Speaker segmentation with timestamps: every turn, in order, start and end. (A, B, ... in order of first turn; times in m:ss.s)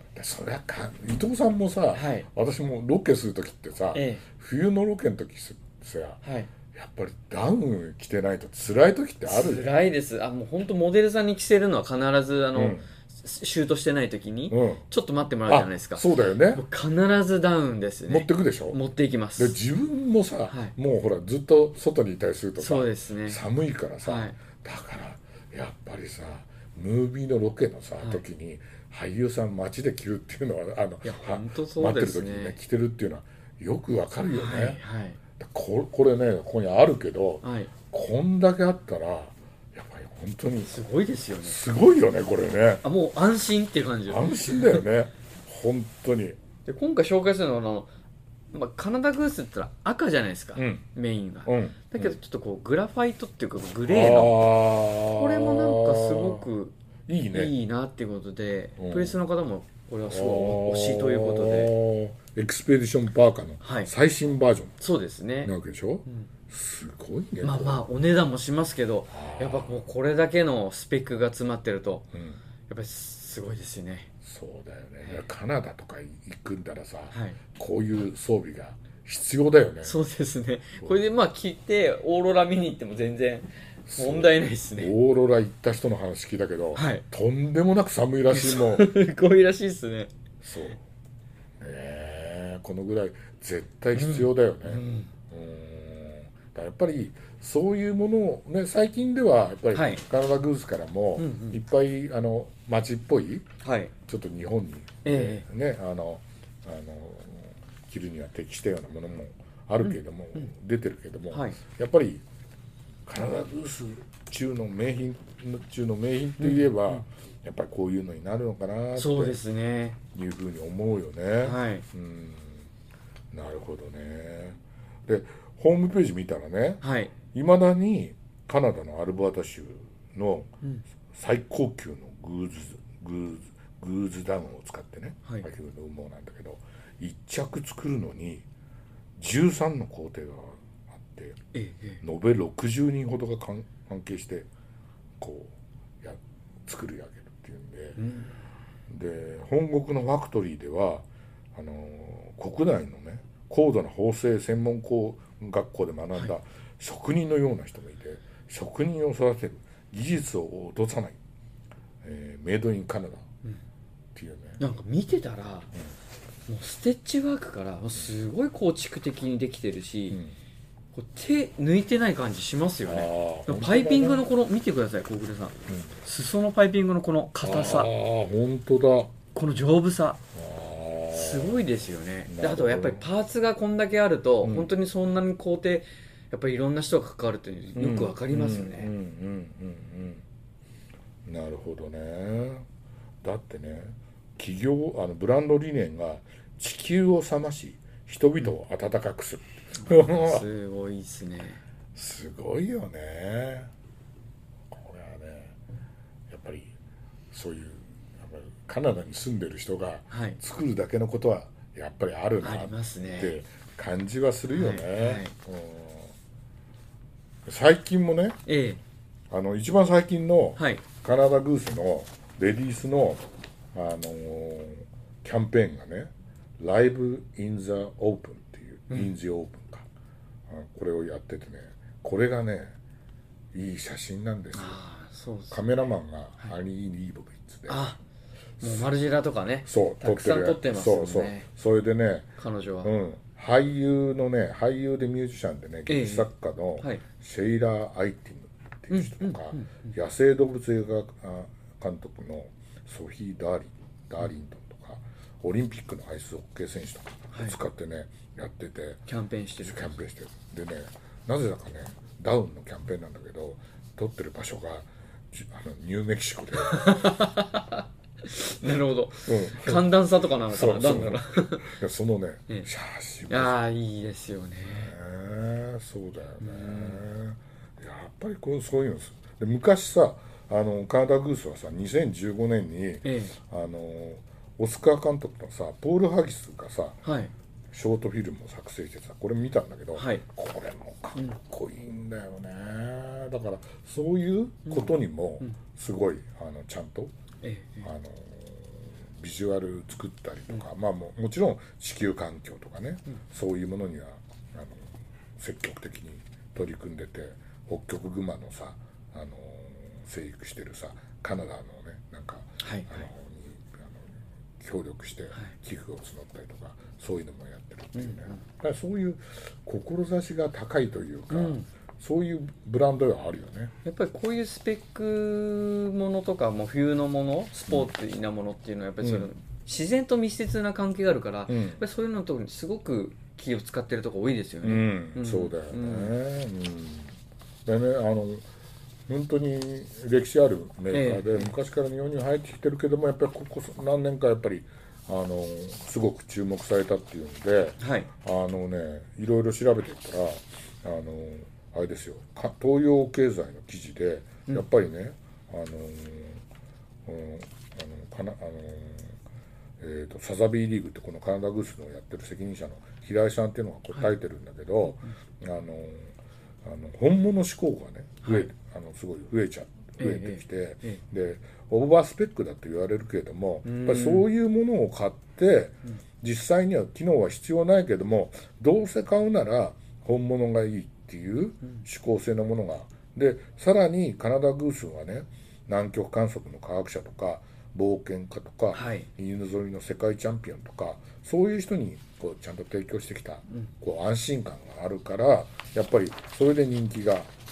0:00.1-0:06.2 A
0:01.9-0:02.3 B
0:03.9-0:04.2 B
0:06.2-0:06.5 B
0:06.7-0:09.7 A
0:09.2-0:19.6 B
0:12.5-0:12.8 A
0:14.5-0:14.8 A
0:15.5-0:16.6 A
0:18.1-0:18.8 A
0:19.4-0:34.8 A
0:20.5-0:20.7 B
0:22.6-0:23.4 B
0:24.0-0:24.4 B
0:31.0-0:32.6 B
0:34.3-0:35.2 B
0:35.4-0:40.7 A
0:37.4-0:37.7 B
0:40.6-0:41.6 B
0:41.4-0:42.8 A
0:42.8-0:44.8 B
0:44.1-0:46.4 A
0:46.6-0:47.9 B
0:48.5-0:54.6 B
0:50.6-0:50.8 A
0:51.4-0:52.2 A
0:53.9-0:56.5 A
0:55.1-0:56.7 B
0:57.1-0:57.5 A
0:57.3-1:01.7 B
0:58.8-0:59.2 A
1:00.1-1:04.8 A
1:03.6-1:03.9 B
1:04.8-1:05.5 B
1:05.4-1:07.8 A
1:07.4-1:12.1 B
1:09.1-1:09.8 A
1:12.1-1:12.4 A
1:12.7-1:14.1 B
1:14.2-1:20.0 A
1:15.0-1:15.3 B
1:17.1-1:17.4 B
1:19.8-1:24.9 B
1:23.9-1:28.9 A
1:26.7-1:27.0 B
1:28.3-1:30.1 B
1:30.4-1:30.8 A
1:31.6-1:43.4 A
1:33.9-1:35.1 B
1:39.7-1:40.0 B
1:41.2-1:41.6 B
1:43.6-1:43.9 B
1:44.1-1:52.2 A
1:45.0-1:45.4 B
1:49.8-1:50.5 B
1:51.3-1:51.6 B
1:53.0-1:59.4 A
1:56.4-1:57.0 B
1:59.0-2:00.0 B
2:00.1-2:02.7 A
2:01.4-2:01.8 B
2:03.3-2:10.5 A
2:06.8-2:07.1 B
2:11.1-2:18.4 A
2:19.2-2:21.4 A
2:21.5-2:22.0 B
2:22.0-2:24.5 A
2:25.2-2:28.0 A
2:28.0-2:28.4 B
2:28.9-2:41.2 A
2:42.0-2:43.2 A
2:44.1-2:44.6 A
2:44.6-2:45.7 B
2:46.5-2:50.2 B
2:50.1-2:50.3 A
2:50.9-2:57.9 B
2:52.8-2:54.3 A
2:55.7-2:56.0 A
2:57.4-2:59.1 A
2:59.3-3:00.2 B
3:00.3-3:01.6 A
3:01.1-3:08.9 B
3:02.3-3:03.0 A
3:04.4-3:04.7 A
3:07.7-3:10.2 A
3:11.2-3:12.6 A
3:13.2-3:20.4 A
3:19.8-3:21.6 B
3:21.9-3:23.7 A
3:24.7-3:25.6 A
3:26.3-3:26.7 A
3:27.3-3:36.1 A
3:30.1-3:30.4 B
3:32.4-3:33.3 B
3:34.5-3:35.3 B
3:37.4-3:38.4 A
3:38.4-3:38.8 B
3:39.3-3:49.9 A
3:40.6-3:40.8 B
3:48.9-3:49.1 B
3:50.5-3:52.7 A
3:53.5-3:54.8 A
3:54.5-3:55.6 B
3:55.5-3:57.9 A
3:57.7-3:58.0 B
3:58.6-3:58.9 A
3:58.6-4:01.5 B
3:59.7-4:02.3 A
4:02.4-4:02.9 B
4:02.8-4:19.0 A
4:05.9-4:07.0 B
4:08.9-4:09.9 B
4:17.3-4:17.6 B
4:19.1-4:20.0 B
4:19.6-4:26.9 A
4:26.6-4:31.7 B
4:29.2-4:29.9 A
4:30.5-4:33.6 A
4:33.3-4:34.9 B
4:34.6-4:47.0 A
4:36.4-4:37.0 B
4:43.0-4:43.3 B
4:47.0-4:47.3 B
4:47.7-4:57.1 A
4:50.0-4:50.2 B
4:54.7-4:55.5 B
4:57.4-4:57.9 B
4:57.8-5:23.7 A
5:12.6-5:13.1 B
5:17.9-5:18.4 B
5:21.3-5:21.6 B
5:23.8-5:36.1 B
5:29.0-5:29.3 A
5:31.5-5:31.8 A
5:34.6-5:38.4 A
5:39.1-5:56.4 A
5:40.9-5:41.5 B
5:47.8-5:48.1 B
5:57.0-5:59.2 A
5:59.8-6:37.3 A
6:04.8-6:05.1 B
6:08.2-6:08.5 B
6:10.0-6:11.0 B
6:13.6-6:14.3 B
6:28.7-6:29.1 B